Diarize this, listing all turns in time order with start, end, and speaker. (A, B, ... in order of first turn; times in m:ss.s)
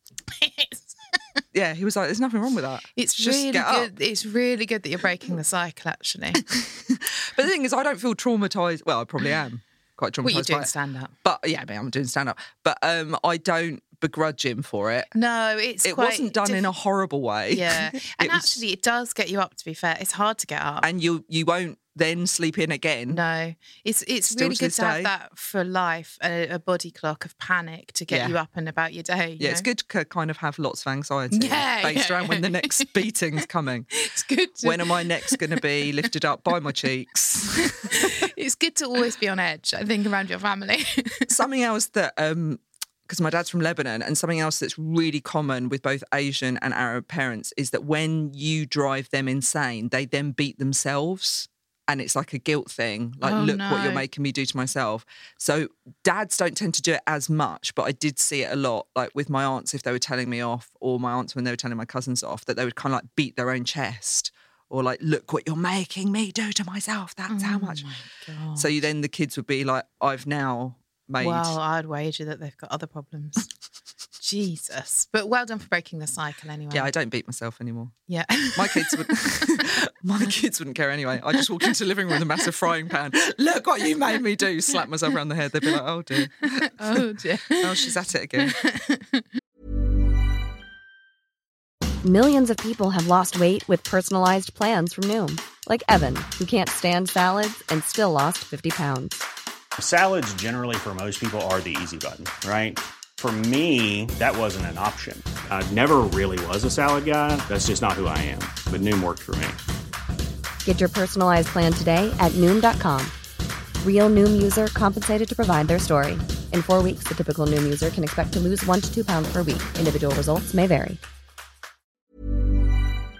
0:00.3-0:01.4 A
0:01.5-0:03.9 B
0:03.0-0:06.5 A
0:06.9-0:10.7 B
0:10.2-0:11.1 A
0:11.2-0:15.1 B
0:15.1-0:16.7 A
0:15.8-0:18.6 B
0:17.5-0:20.9 A
0:20.8-0:23.2 B
0:23.1-0:29.6 A
0:24.3-0:25.1 B
0:28.1-0:28.4 B
0:29.4-0:33.9 B
0:31.3-0:33.4 A
0:34.0-0:35.9 A
0:34.6-0:38.1 B
0:37.6-0:41.3 A
0:41.3-1:07.8 B
0:53.2-0:54.0 A
1:07.3-1:08.7 A
1:08.6-1:11.6 B
1:11.2-1:13.5 A
1:14.2-1:16.9 A
1:16.7-1:17.9 B
1:18.1-1:19.6 A
1:18.5-1:28.6 B
1:26.4-1:29.3 A
1:32.0-1:39.2 C
1:39.8-1:49.6 D
1:50.6-1:53.1 C
1:53.8-2:01.0 C